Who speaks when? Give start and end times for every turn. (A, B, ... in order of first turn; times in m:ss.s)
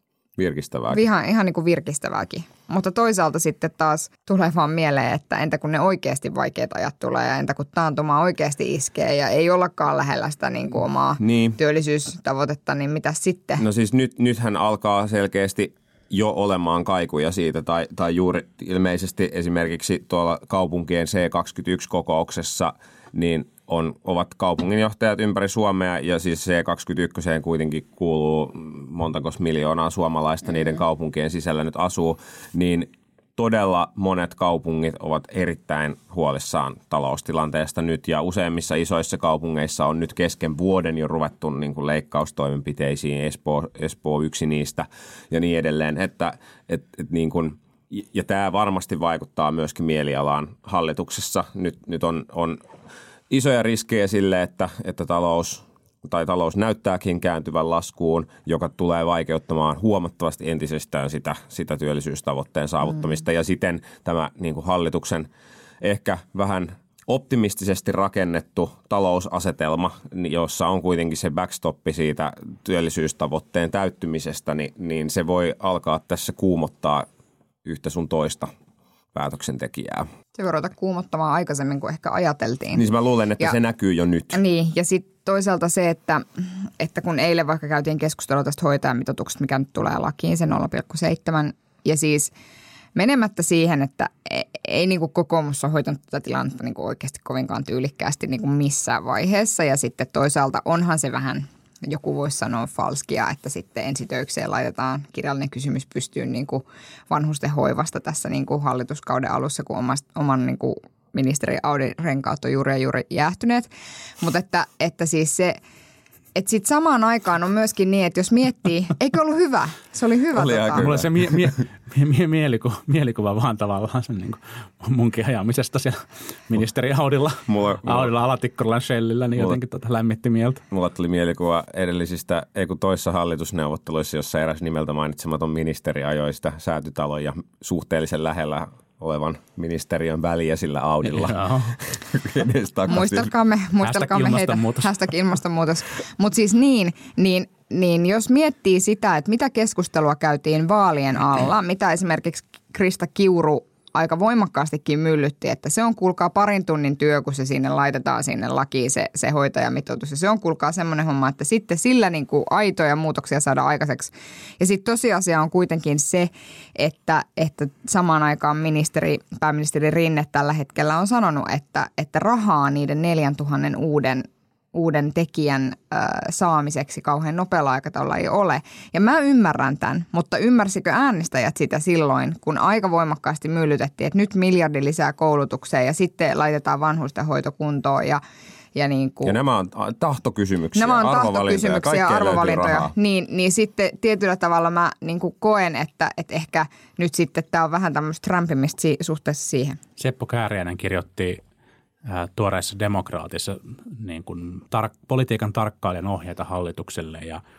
0:00.4-0:01.0 A
0:00.9-0:13.6 B
0:11.2-0:11.6 A
0:13.6-0:52.6 A
0:53.3-1:05.3 A
1:05.8-1:17.1 A
1:17.6-1:18.5 A
1:19.1-1:20.1 A
1:20.4-1:22.8 B
1:22.7-1:24.4 A
1:24.3-1:32.3 B
1:33.0-1:53.7 B
1:54.2-1:55.6 B
1:56.4-2:00.9 B
2:00.3-2:01.5 A
2:00.8-2:10.6 C
2:07.5-2:08.1 A
2:10.7-2:23.3 A
2:21.0-2:21.8 C
2:22.9-3:08.2 B
2:23.8-2:25.0 C
3:08.8-3:09.4 B
3:09.2-3:12.9 A
3:10.8-3:19.8 B
3:20.0-3:21.4 C
3:22.1-3:27.4 C